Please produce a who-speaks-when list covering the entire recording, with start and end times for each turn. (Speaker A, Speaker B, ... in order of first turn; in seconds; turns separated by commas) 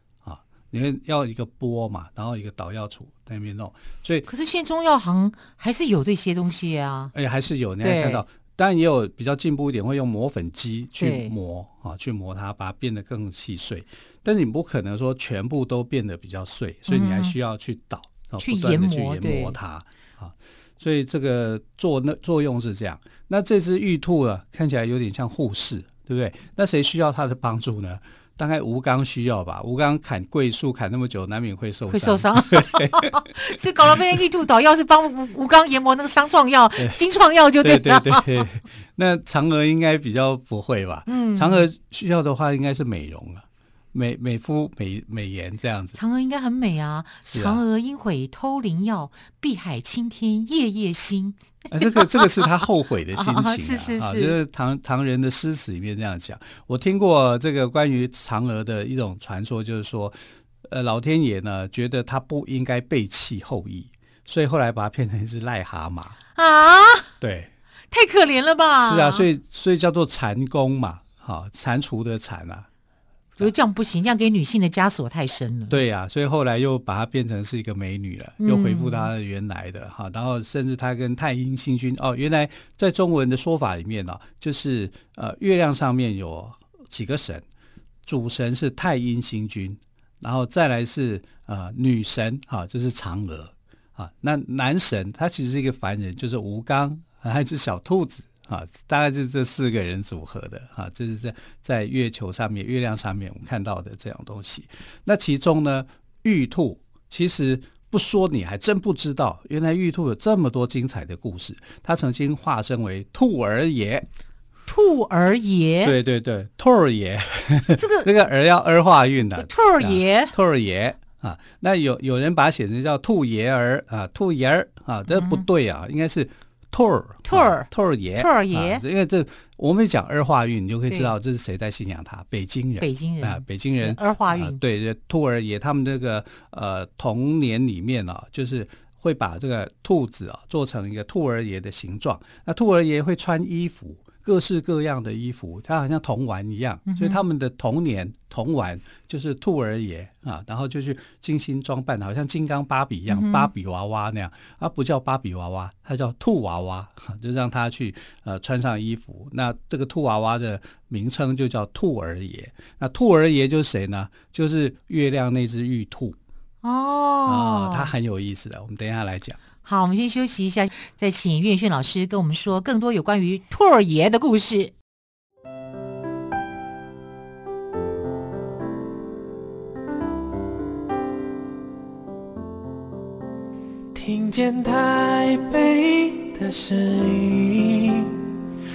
Speaker A: 0.2-4.2, Speaker B: 4.3-7.1, Speaker A: 7.1-34.2, Speaker B: 7.8-8.2, Speaker B: 11.0-11.3, Speaker B: 16.9-17.4, Speaker B: 18.4-19.6, Speaker B: 31.9-38.4, Speaker A: 37.6-46.0, Speaker B: 41.1-41.7, Speaker B: 46.0-52.6, Speaker A: 47.2-47.6, Speaker A: 51.7-66.2, Speaker B: 53.1-54.4, Speaker B: 66.3-67.1, Speaker A: 67.2-67.5, Speaker B: 67.9-69.2, Speaker A: 68.8-72.7, Speaker B: 73.4-75.8, Speaker A: 75.7-87.4, Speaker B: 78.4-79.1, Speaker A: 88.0-114.1, Speaker B: 114.7-116.0, Speaker A: 115.8-166.2, Speaker B: 117.7-118.1, Speaker B: 119.3-120.3, Speaker B: 125.1-125.4, Speaker B: 127.2-128.8, Speaker B: 132.8-134.6, Speaker B: 146.9-147.2, Speaker B: 153.1-153.5, Speaker B: 166.6-167.9, Speaker A: 167.2-169.4, Speaker B: 169.6-174.7, Speaker C: 183.9-188.3